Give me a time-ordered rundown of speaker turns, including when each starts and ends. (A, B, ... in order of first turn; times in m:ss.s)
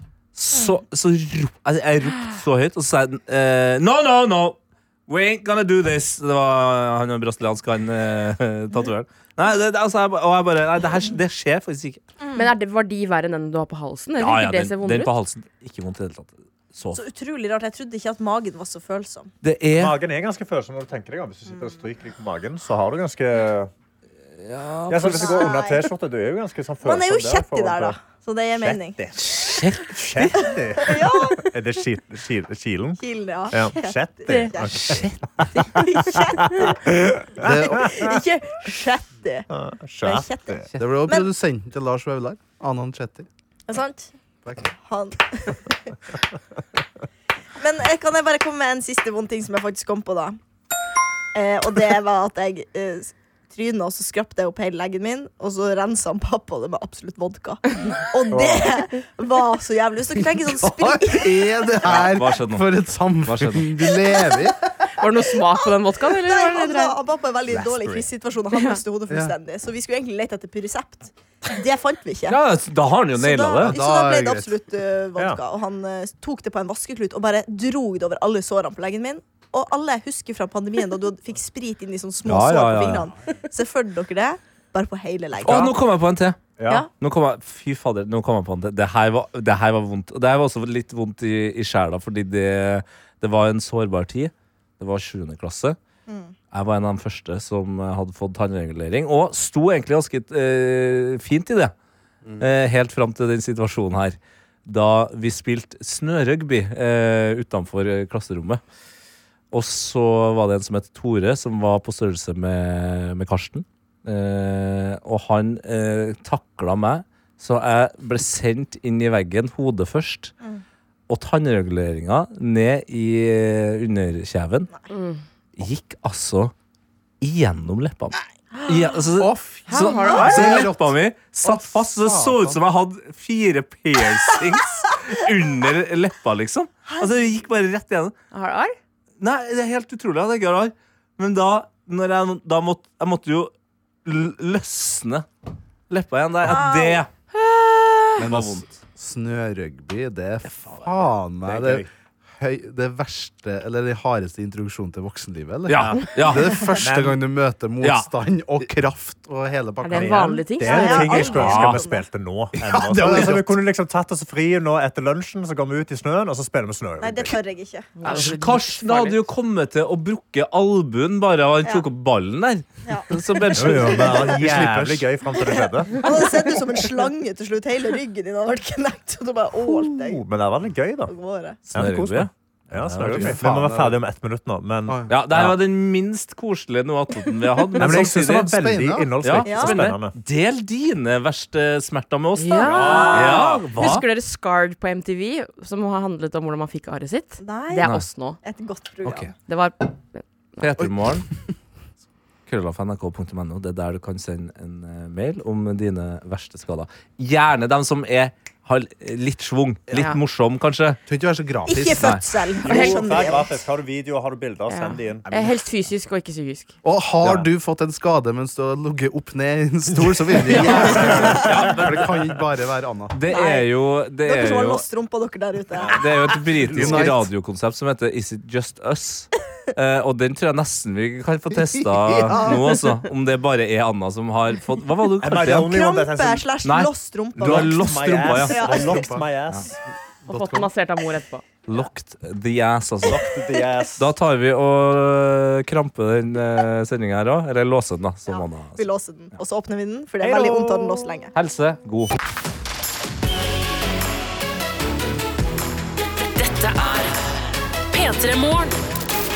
0:00.3-0:12.0 A
0:12.3-0:15.1 B
0:14.2-0:17.0 A
0:16.9-0:19.3 C
0:19.4-0:19.9 A
0:19.7-0:23.7 D
0:24.4-0:25.4 A
0:24.9-0:28.0 D
0:25.1-0:25.9 C
0:26.8-0:29.6 C
0:28.6-0:29.3 D
0:29.2-0:29.9 A
0:29.9-0:33.0 D
0:30.4-0:31.4 C
0:33.0-0:35.0 C
0:33.5-0:38.1 D
0:34.7-0:35.2 A
0:35.5-0:36.8 C
0:37.4-0:37.9 E
0:37.4-0:39.5 C
0:39.5-0:40.7 D
0:40.0-0:41.3 C
0:40.8-0:43.3 E
0:43.7-0:44.1 C
0:44.4-0:44.7 E
0:44.8-0:46.0 C
0:47.6-0:50.4 C
0:51.3-1:01.5 C
0:58.3-0:58.7 D
1:00.4-1:04.6 E
1:01.8-1:02.6 A
1:03.2-1:03.7 A
1:05.0-1:07.0 B
1:05.6-1:12.4 C
1:07.5-1:08.1 D
1:08.5-1:08.8 B
1:12.3-1:13.8 A
1:13.1-1:25.8 C
1:13.7-1:14.5 E
1:22.2-1:23.1 A
1:25.4-1:35.8 A
1:26.6-1:26.9 D
1:36.1-1:36.3 C
1:36.5-1:41.7 A
1:42.4-1:48.6 A
1:49.5-2:00.3 A
2:01.1-2:04.7 A
2:04.9-2:05.2 B
2:05.6-2:06.5 A
2:07.2-2:18.1 A
2:08.5-2:08.8 B
2:09.2-2:12.6 E
2:09.7-2:10.5 B
2:18.3-2:18.8 B
2:19.2-2:23.5 A
2:24.0-2:25.2 A
2:25.9-2:27.5 A
2:26.4-2:27.0 C
2:28.1-2:28.6 A
2:28.2-2:31.8 E
2:30.4-2:31.6 A
2:32.4-2:40.2 E
2:35.7-2:36.8 A
2:36.8-2:37.2 D
2:37.8-2:38.1 A
2:39.8-2:41.3 B
2:39.9-2:47.4 D
2:40.6-2:42.0 C
2:41.2-2:41.8 A
2:42.6-2:43.5 E
2:47.0-2:47.9 C
2:48.0-2:49.2 B
2:48.0-2:54.3 A
2:52.8-2:54.3 C
2:53.5-2:56.2 D
2:54.3-2:55.1 E
2:56.0-3:00.2 C
2:59.6-3:01.1 D
3:01.1-3:01.6 C
3:01.7-3:05.6 D
3:01.7-3:03.4 A
3:02.9-3:04.0 E
3:05.1-3:08.6 A
3:07.8-3:10.1 D
3:08.5-3:09.2 E
3:09.2-3:14.0 A
3:09.4-3:09.8 C
3:12.4-3:18.4 B
3:17.4-3:17.9 C
3:18.4-3:19.3 C
3:19.0-3:19.3 A
3:19.5-3:20.2 B
3:20.6-3:21.3 A
3:22.5-3:31.0 A
3:29.9-3:30.2 B
3:31.1-3:32.1 E
3:31.6-3:33.6 C
3:32.0-3:32.2 A
3:32.6-3:35.6 D
3:32.7-3:33.0 B
3:34.7-3:36.7 B
3:36.8-3:43.2 E
3:37.2-3:37.5 D
3:40.0-3:41.9 D
3:40.6-3:42.1 A
3:41.0-3:41.3 C
3:43.1-3:44.8 A
3:43.3-3:43.7 C
3:44.2-3:46.4 C
3:45.8-3:55.7 A
3:46.7-3:47.3 E
3:52.1-3:52.8 E
3:55.2-3:56.4 D
3:55.5-3:59.1 C
3:56.6-3:58.6 A
3:57.4-3:59.7 D
3:58.7-3:59.2 E
4:00.3-4:00.7 E
4:00.3-4:01.4 B
4:01.7-4:03.3 A
4:03.1-4:04.1 D
4:04.0-4:08.9 A
4:08.3-4:11.3 C
4:10.2-4:11.2 D
4:11.3-4:12.2 A
4:16.2-4:17.3 F
4:17.9-4:18.8 F